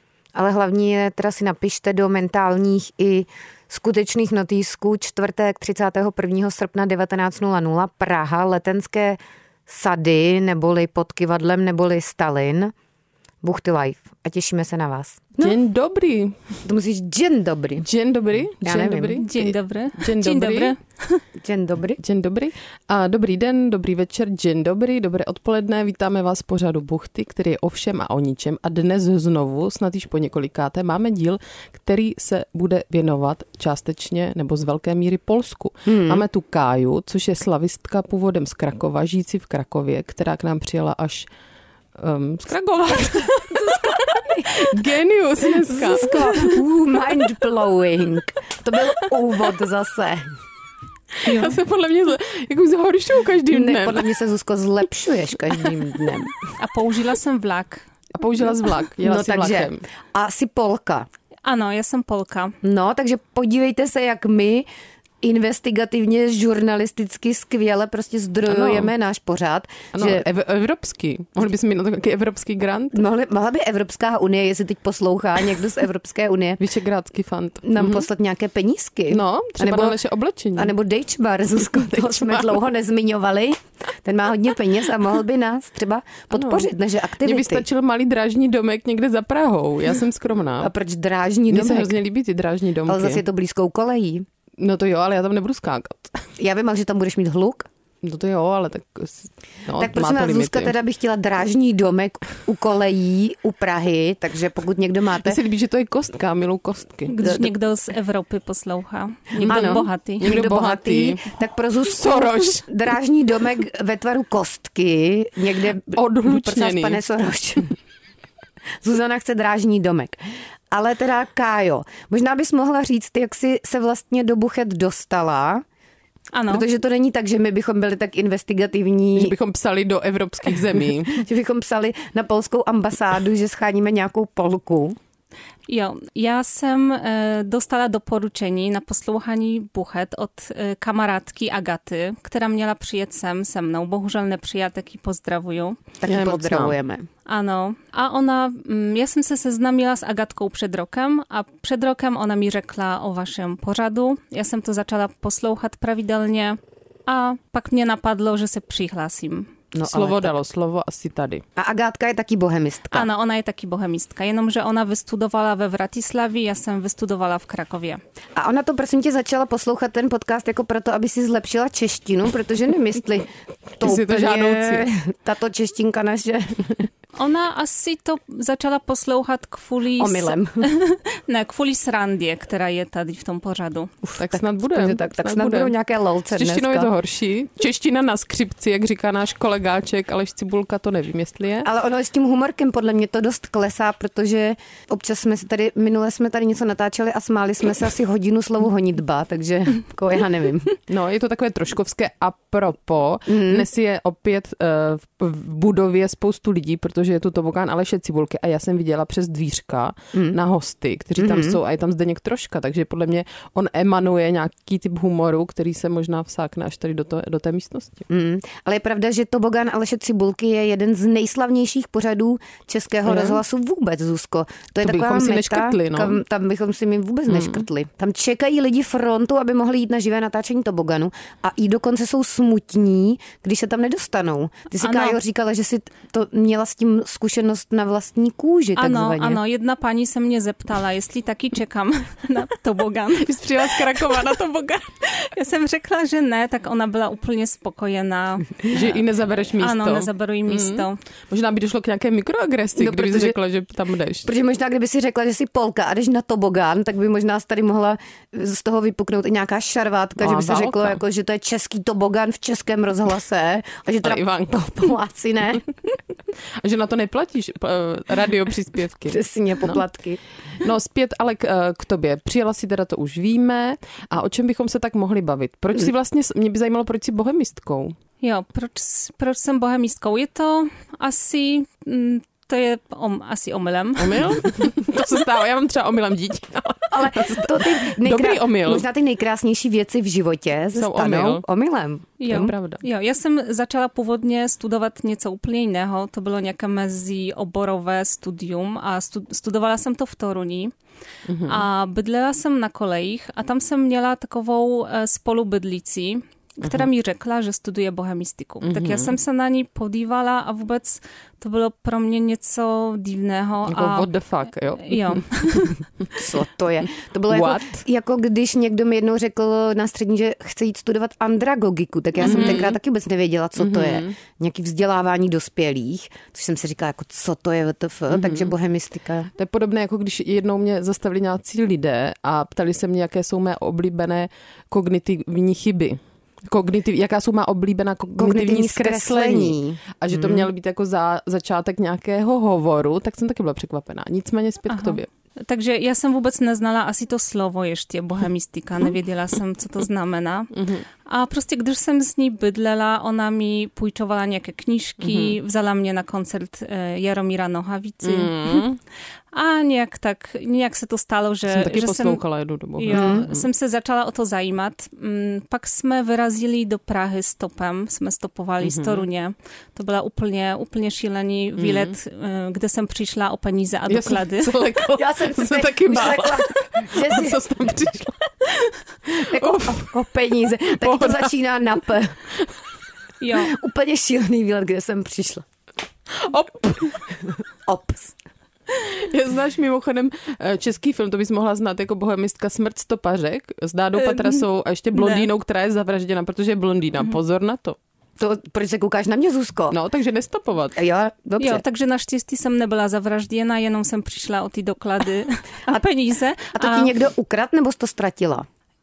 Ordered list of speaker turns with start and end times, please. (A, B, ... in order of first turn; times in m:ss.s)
0:00.3-0:12.7 A
0:13.4-0:15.6 A
0:15.4-0:16.6 B
0:16.6-0:17.9 A
0:17.8-0:20.7 B
0:18.6-0:19.2 A
0:19.2-0:21.2 C
0:21.4-0:22.0 A
0:22.0-0:41.3 B
0:35.9-0:36.2 A
0:42.0-0:46.6 B
0:43.6-0:44.7 A
0:45.5-0:50.2 A
0:51.1-0:54.1 B
0:53.5-0:56.4 A
0:56.6-0:57.9 C
0:58.1-0:59.8 B
0:59.0-1:01.1 A
1:01.4-1:02.6 C
1:02.6-1:04.7 A
1:05.2-1:10.2 A
1:08.4-1:08.9 B
1:09.9-1:13.0 B
1:12.9-1:16.6 A
1:16.6-1:18.1 B
1:17.6-1:20.0 A
1:19.1-1:20.7 B
1:20.6-1:27.6 A
1:21.6-1:22.6 B
1:26.3-1:26.7 B
1:27.2-1:30.7 B
1:30.6-1:32.0 A
1:31.5-1:33.2 B
1:32.9-1:34.2 A
1:34.6-1:36.2 B
1:36.4-1:37.7 A
1:38.0-1:40.7 B
1:39.8-1:45.4 A
1:45.2-1:47.5 B
1:47.1-1:50.3 C
1:49.3-1:51.2 B
1:49.4-1:57.7 A
1:52.0-1:52.7 B
1:55.9-1:57.0 B
1:58.8-2:00.2 A
2:00.7-2:05.6 A
2:06.3-2:06.6 C
2:06.5-2:09.3 A
2:09.2-2:11.2 B
2:11.1-2:15.0 A
2:15.7-2:25.8 C
2:26.0-2:27.1 A
2:26.1-2:26.8 B
2:27.2-2:39.5 C
2:39.7-2:40.4 A
2:39.8-2:41.4 B
2:41.6-2:43.1 A
2:42.9-2:48.0 C
2:48.4-2:56.9 A
2:53.8-2:54.9 B
2:57.2-3:04.0 C
3:00.0-3:00.6 A
3:04.0-3:06.9 A
3:04.2-3:05.7 B
3:06.3-3:11.7 B
3:11.6-3:20.8 A
3:20.9-3:38.0 B
3:23.3-3:23.6 A
3:31.2-3:31.6 A
3:38.1-3:59.4 A
3:43.0-3:43.4 B
3:44.8-3:46.2 B
3:47.3-3:47.6 B
3:54.8-3:55.2 C
3:58.8-4:04.2 C
4:03.2-4:04.9 B
4:05.0-4:09.0 C
4:08.7-4:14.3 B
4:09.6-4:11.0 C
4:12.8-4:13.4 A
4:14.2-4:25.7 A
4:20.2-4:21.0 B
4:24.0-4:24.6 B
4:26.6-4:29.8 B
4:29.1-4:30.2 A
4:30.6-4:38.0 B
4:38.2-4:44.5 C
4:44.0-4:48.8 B
4:46.9-4:52.5 A
4:50.7-4:51.4 B
4:52.2-5:00.7 C
4:52.3-4:52.8 B
5:01.2-5:01.6 B
5:01.4-5:14.1 C
5:06.6-5:06.9 B
5:08.6-5:09.2 B
5:13.7-5:16.1 B
5:14.8-5:15.8 C
5:16.2-5:29.3 A
5:17.3-5:17.8 B
5:22.2-5:22.7 C
5:22.2-5:22.8 B
5:23.6-5:24.2 B
5:28.1-5:28.5 B
5:29.3-5:45.1 B
5:38.2-5:40.5 A
5:44.7-5:50.5 C
5:50.5-5:50.8 B
5:51.0-5:58.7 C
5:55.0-5:55.4 B
5:58.0-5:58.8 B
5:59.3-6:02.2 C
6:01.5-6:03.4 B
6:02.8-6:14.5 C
6:02.9-6:03.2 A
6:08.6-6:09.0 B
6:11.6-6:11.9 B
6:13.9-6:19.9 B
6:14.9-6:17.4 A
6:19.1-6:22.2 A
6:20.7-6:21.3 B
6:23.2-6:23.5 C
6:23.4-6:25.4 A
6:26.1-6:27.1 B
6:27.7-6:28.1 A
6:28.7-6:37.8 B
6:34.0-6:34.4 C
6:34.9-6:35.2 C
6:38.2-6:39.8 A
6:39.7-6:40.8 B
6:40.8-6:41.6 A
6:41.4-6:46.9 C
6:46.5-6:48.4 A